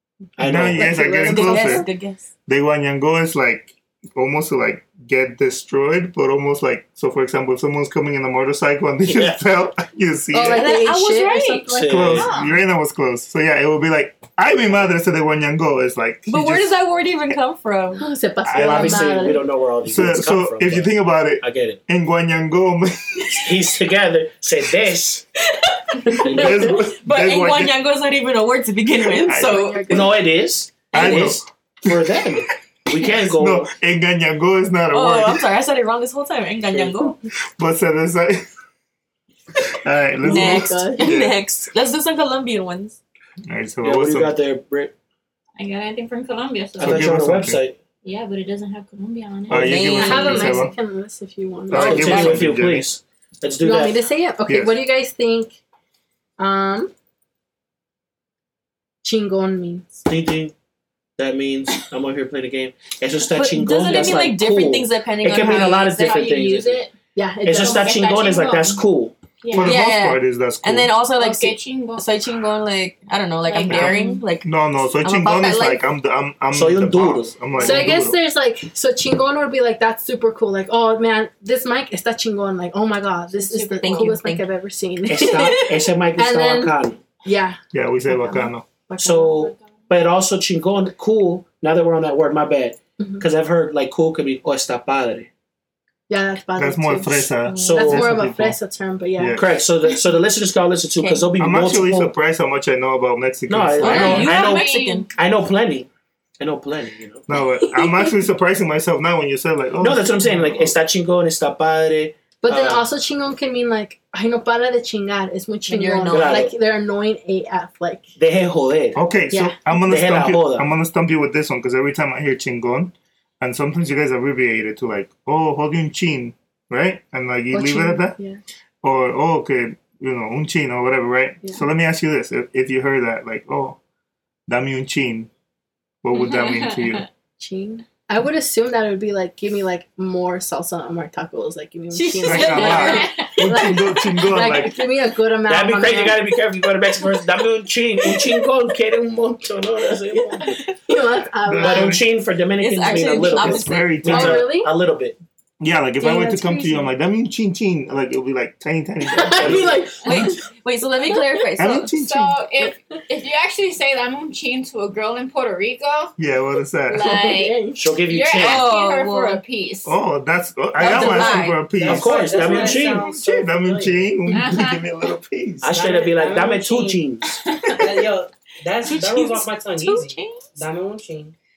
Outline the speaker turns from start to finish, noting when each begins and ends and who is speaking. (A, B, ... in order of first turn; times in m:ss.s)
0:00.4-0:00.9 A
0:00.4-0:01.9 B
0:00.8-0:01.9 C
0:01.2-0:02.2 D
0:02.5-0:10.7 B
0:09.0-0:09.4 A
0:10.3-0:12.2 C
0:10.5-0:11.8 D
0:11.7-0:12.3 A
0:11.9-0:17.4 B
0:12.2-0:12.6 E
0:16.3-0:18.0 D
0:18.0-0:19.5 C
0:18.5-0:19.2 B
0:18.5-0:21.8 A
0:19.8-0:23.5 B
0:23.3-0:25.2 A
0:25.5-0:30.1 D
0:26.3-0:27.8 B
0:29.1-0:30.3 C
0:29.2-0:29.8 B
0:29.9-0:33.7 A
0:30.9-0:31.9 B
0:33.3-0:35.4 B
0:34.9-0:37.2 D
0:37.6-0:38.5 B
0:39.7-0:41.4 B
0:40.2-0:41.0 C
0:40.2-0:43.0 D
0:43.4-0:44.3 B
0:43.8-0:44.9 A
0:45.6-0:47.0 E
0:46.8-0:47.8 A
0:46.8-0:47.6 B
0:48.0-0:49.8 E
0:49.5-0:50.7 B
0:49.5-0:50.7 D
0:49.8-0:52.4 C
0:51.7-0:52.9 B
0:51.7-0:54.0 A
0:51.8-0:52.4 D
0:53.6-0:55.6 C
0:54.5-0:54.8 B
0:56.4-0:56.9 C
0:59.0-1:00.0 C
1:00.1-1:00.5 A
1:01.2-1:06.8 A
1:03.3-1:06.2 D
1:05.4-1:06.9 E
1:07.2-1:08.0 C
1:07.4-1:09.1 A
1:07.5-1:08.8 E
1:09.4-1:09.8 E
1:09.5-1:11.0 B
1:09.6-1:15.8 D
1:11.2-1:12.1 E
1:13.5-1:14.2 E
1:13.6-1:14.1 C
1:13.7-1:18.2 B
1:16.5-1:17.4 A
1:17.6-1:29.5 C
1:23.4-1:24.2 E
1:23.8-1:24.5 D
1:25.1-1:27.0 A
1:25.2-1:25.7 D
1:27.7-1:28.7 B
1:29.0-1:35.3 A
1:33.0-1:33.3 C
1:36.1-1:39.5 C
1:36.6-1:38.6 B
1:37.5-1:38.0 D
1:37.6-1:38.1 A
1:39.2-1:39.5 B
1:39.4-1:42.1 A
1:41.4-1:44.4 B
1:43.5-1:45.9 A
1:43.8-1:45.1 D
1:44.1-1:45.1 E
1:46.4-1:47.3 A
1:47.3-1:50.8 B
1:47.4-1:48.2 C
1:49.8-1:52.8 A
1:52.4-1:58.0 C
1:55.7-1:56.5 D
1:56.1-1:56.5 A
1:58.2-1:59.0 A
1:59.0-2:08.2 B
1:59.3-1:59.6 C
1:59.8-2:00.7 A
2:07.5-2:08.4 C
2:08.8-2:13.8 B
2:14.5-2:15.3 B
2:16.0-2:17.1 B
2:16.1-2:17.1 E
2:17.4-2:26.3 C
2:21.9-2:23.1 D
2:22.2-2:24.8 B
2:22.5-2:23.3 E
2:25.5-2:30.6 A
2:28.0-2:28.4 C
2:30.0-2:32.0 C
2:31.5-2:32.0 B
2:31.6-2:35.2 A
2:32.6-2:34.1 D
2:33.2-2:34.5 B
2:34.1-2:34.7 C
2:35.6-2:40.3 B
2:36.0-2:36.9 C
2:39.1-2:40.4 C
2:39.4-2:39.7 A
2:40.0-2:41.9 D
2:41.6-2:42.4 B
2:42.0-2:46.2 E
2:46.2-2:47.0 B
2:46.9-2:50.0 E
2:46.9-2:47.9 C
2:47.8-2:48.6 A
2:48.4-2:49.4 D
2:49.8-2:55.7 B
2:50.8-2:51.7 D
2:51.0-2:51.2 F
2:51.8-2:54.1 F
2:51.8-2:53.1 A
2:54.3-2:54.8 E
2:55.6-2:57.4 A
2:55.7-2:57.0 F
2:57.4-2:57.8 E
2:57.7-3:01.3 F
2:58.8-3:00.5 D